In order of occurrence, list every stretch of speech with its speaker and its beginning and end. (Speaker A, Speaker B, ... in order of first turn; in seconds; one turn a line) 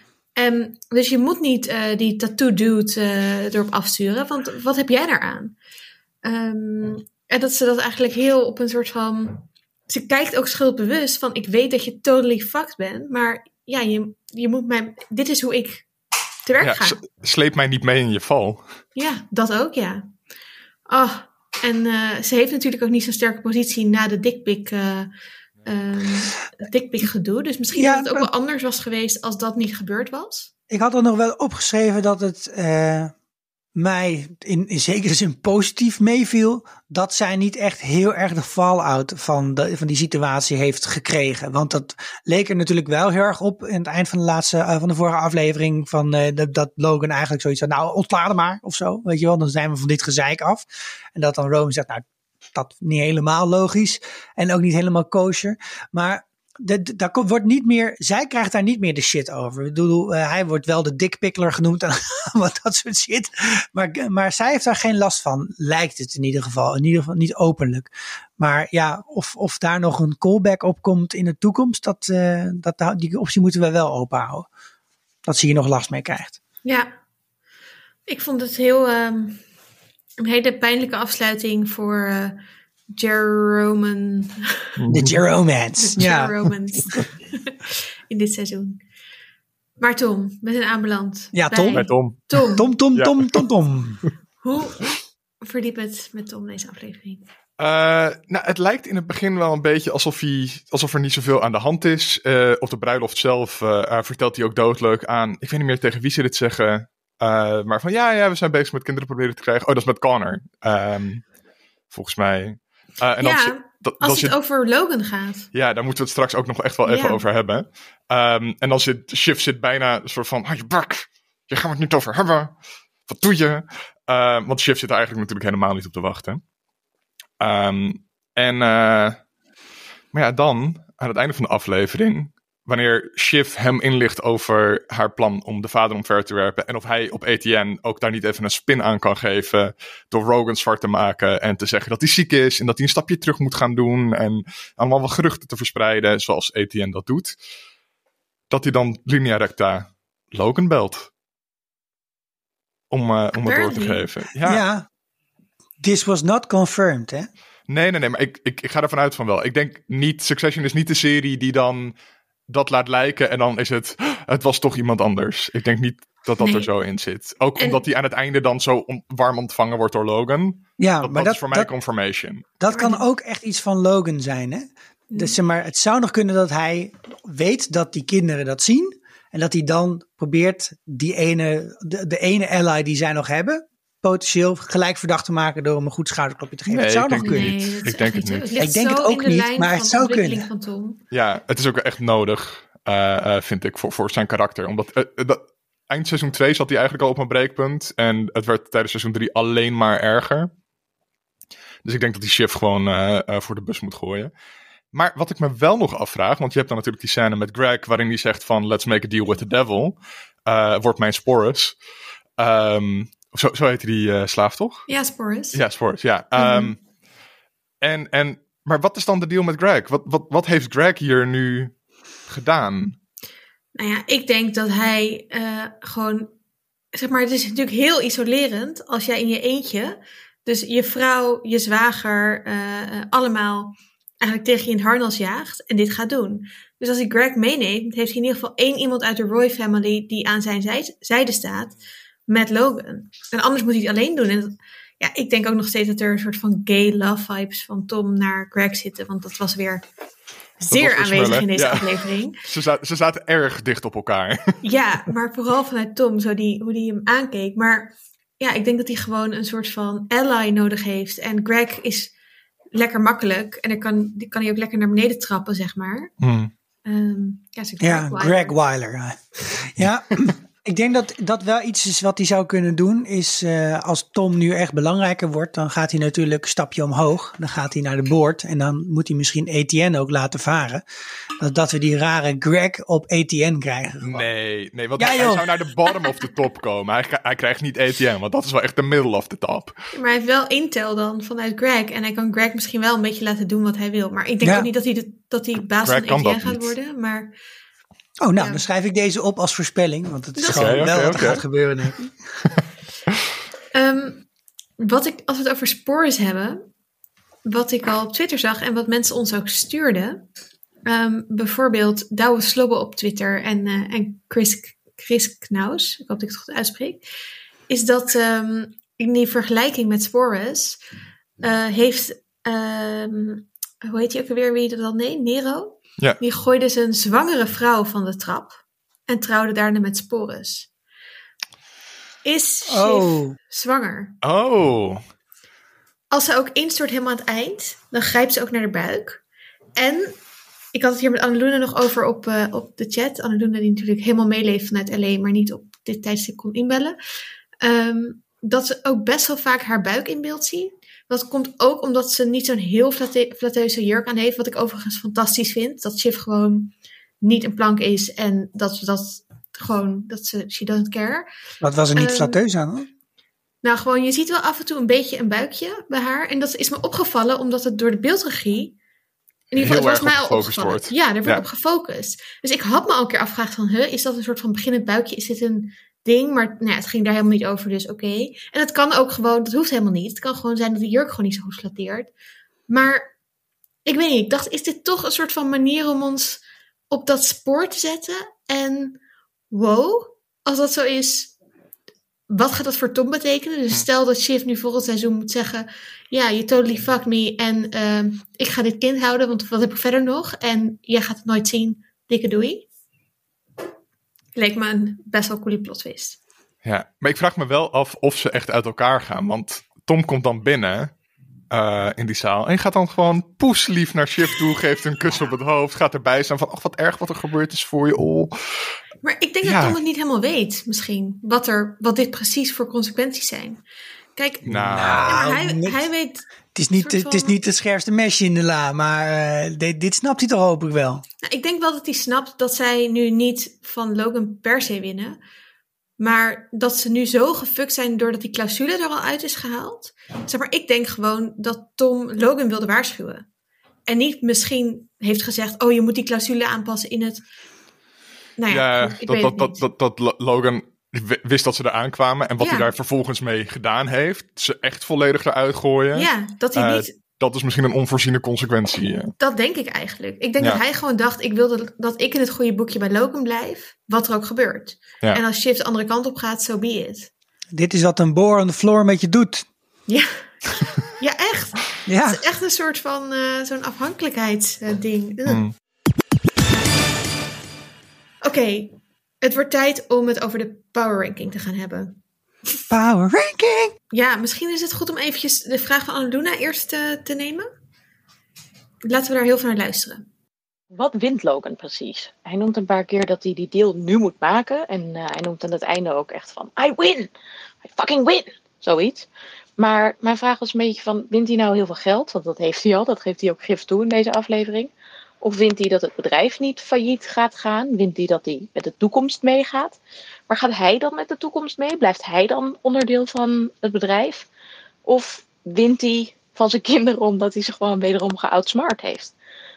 Speaker A: 0.4-5.5
Speaker A: 6.2-15.9
Speaker A: 16.4-17.0
Speaker B: 16.6-18.6
Speaker A: 18.9-20.1
Speaker A: 20.9-25.1
Speaker A: 25.6-30.5
Speaker C: 27.7-28.3
Speaker C: 30.7-33.1
Speaker C: 33.8-74.5
Speaker C: 75.2-76.4
Speaker A: 78.1-79.4
Speaker A: 80.2-82.4
Speaker A: 82.9-84.7
Speaker B: 84.8-85.1
Speaker C: 84.9-87.0
Speaker A: 85.8-88.8
Speaker A: 89.8-92.7
Speaker C: 91.3-91.9
Speaker B: 91.7-92.2
Speaker C: 92.5-94.0
Speaker B: 92.9-93.4
Speaker A: 94.4-97.2
Speaker B: 97.6-111.2
Speaker B: 111.9-114.3
Speaker A: 113.2-115.5
Speaker B: 115.5-122.5
Speaker A: 116.8-117.2
Speaker B: 123.1-126.4
Speaker B: 127.4-129.2
Speaker B: 130.1-147.3
Speaker B: 148.5-151.1
Speaker B: 152.9-154.6
Speaker A: 153.4-154.0
Speaker C: 154.4-154.9
Speaker C: 155.8-157.3
Speaker B: 157.7-161.9
Speaker B: 162.5-172.4
Speaker A: 166.4-166.7
Speaker A: 167.6-167.8
Speaker C: 170.8-171.7
Speaker C: 172.6-187.6
Speaker A: 172.7-173.0
Speaker A: 175.1-175.3
Speaker B: 186.7-188.5
Speaker A: 187.2-191.0
Speaker C: 188.6-190.5
Speaker B: 191.1-200.5
Speaker B: 201.8-204.3
Speaker B: 204.9-211.8
Speaker B: 212.4-214.9
Speaker A: 214.9-215.6
Speaker B: 215.5-216.8
Speaker A: 216.3-216.7
Speaker B: 217.8-221.7
Speaker B: 222.3-223.0
Speaker A: 223.8-226.3
Speaker A: 226.9-241.7
Speaker A: 242.3-249.8
Speaker A: 250.6-252.4
Speaker B: 250.6-254.6
Speaker A: 254.6-262.1
Speaker A: 262.7-266.1
Speaker B: 266.2-266.5
Speaker A: 266.8-268.5
Speaker C: 267.8-280.8
Speaker C: 281.4-284.3
Speaker B: 284.0-289.7
Speaker C: 285.0-285.5
Speaker A: 289.9-297.3
Speaker C: 294.4-294.7
Speaker B: 295.8-296.7
Speaker C: 298.2-302.1
Speaker A: 298.4-298.6
Speaker A: 300.4-300.9
Speaker B: 300.5-301.4
Speaker A: 303.7-304.2
Speaker A: 304.8-306.6
Speaker A: 307.4-310.2
Speaker A: 310.9-317.0
Speaker A: 317.7-320.8
Speaker A: 321.4-330.7
Speaker A: 332.2-334.2
Speaker C: 332.7-333.4
Speaker B: 334.2-335.0
Speaker A: 336.1-339.2
Speaker A: 339.8-340.2
Speaker A: 340.7-346.9
Speaker A: 347.6-361.3
Speaker C: 361.6-362.9
Speaker A: 361.9-362.4
Speaker A: 363.6-368.8
Speaker A: 369.5-382.1
Speaker B: 369.6-371.4
Speaker A: 382.7-383.1
Speaker A: 383.9-391.3
Speaker A: 392.3-402.7
Speaker A: 404.4-406.2
Speaker B: 406.6-410.9
Speaker B: 411.5-418.7
Speaker A: 419.0-423.6
Speaker B: 419.4-419.8
Speaker A: 424.1-427.3
Speaker B: 424.4-425.1
Speaker C: 424.5-425.9
Speaker C: 426.5-431.0
Speaker A: 431.2-435.2
Speaker A: 436.0-443.2
Speaker A: 443.9-447.2
Speaker A: 448.4-449.6
Speaker B: 448.5-459.1
Speaker A: 452.4-452.7
Speaker A: 455.9-456.9
Speaker A: 459.2-467.1
Speaker C: 467.5-469.5
Speaker A: 469.9-475.4
Speaker C: 471.9-472.2
Speaker B: 475.2-475.5
Speaker A: 478.2-482.0
Speaker C: 482.7-483.7
Speaker A: 483.9-487.5
Speaker A: 488.8-490.0
Speaker D: 490.7-497.1
Speaker D: 497.6-499.1
Speaker D: 499.6-514.3
Speaker D: 514.9-519.1